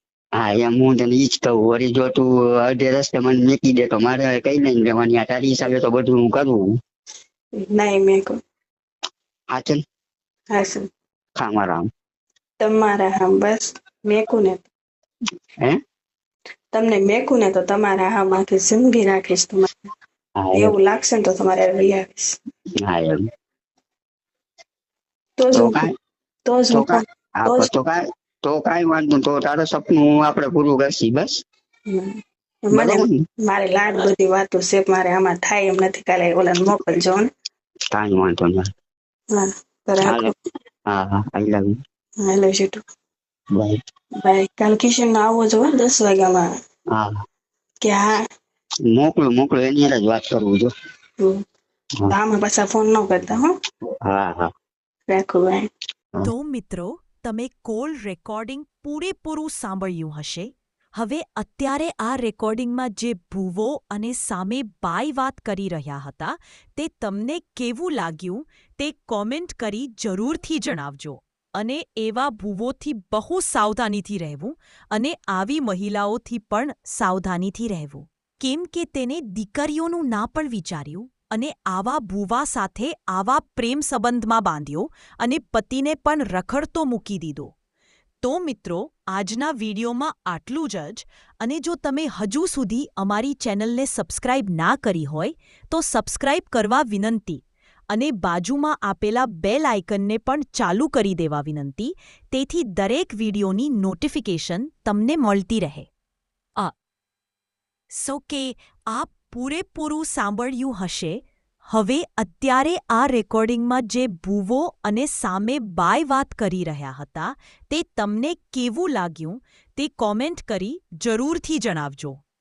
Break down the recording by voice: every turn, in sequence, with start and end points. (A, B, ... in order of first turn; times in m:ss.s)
0:00.4-0:06.8 A
0:07.6-0:08.4 B
0:09.5-0:09.8 A
0:10.5-0:10.9 B
0:11.4-0:11.9 A
0:12.6-0:14.7 B
0:16.7-0:19.9 B
0:20.4-0:20.7 A
0:20.5-0:22.4 B
0:22.8-0:23.3 A
0:25.4-0:25.9 B
0:25.5-0:25.9 A
0:26.4-0:27.7 B
0:26.7-0:31.4 A
0:31.9-0:37.3 B
0:32.7-0:33.2 A
0:37.9-0:38.7 A
0:39.3-0:40.3 B
0:40.0-0:40.3 A
0:40.9-0:41.8 A
0:42.2-0:42.8 B
0:43.5-0:43.8 A
0:44.2-0:46.5 B
0:46.9-0:47.2 A
0:47.8-0:48.2 B
0:48.9-0:50.7 A
0:52.1-0:53.5 B
0:54.0-0:54.5 A
0:55.1-0:55.7 B
0:56.2-1:27.5 C
1:28.2-1:45.9 C
1:47.9-2:02.2 C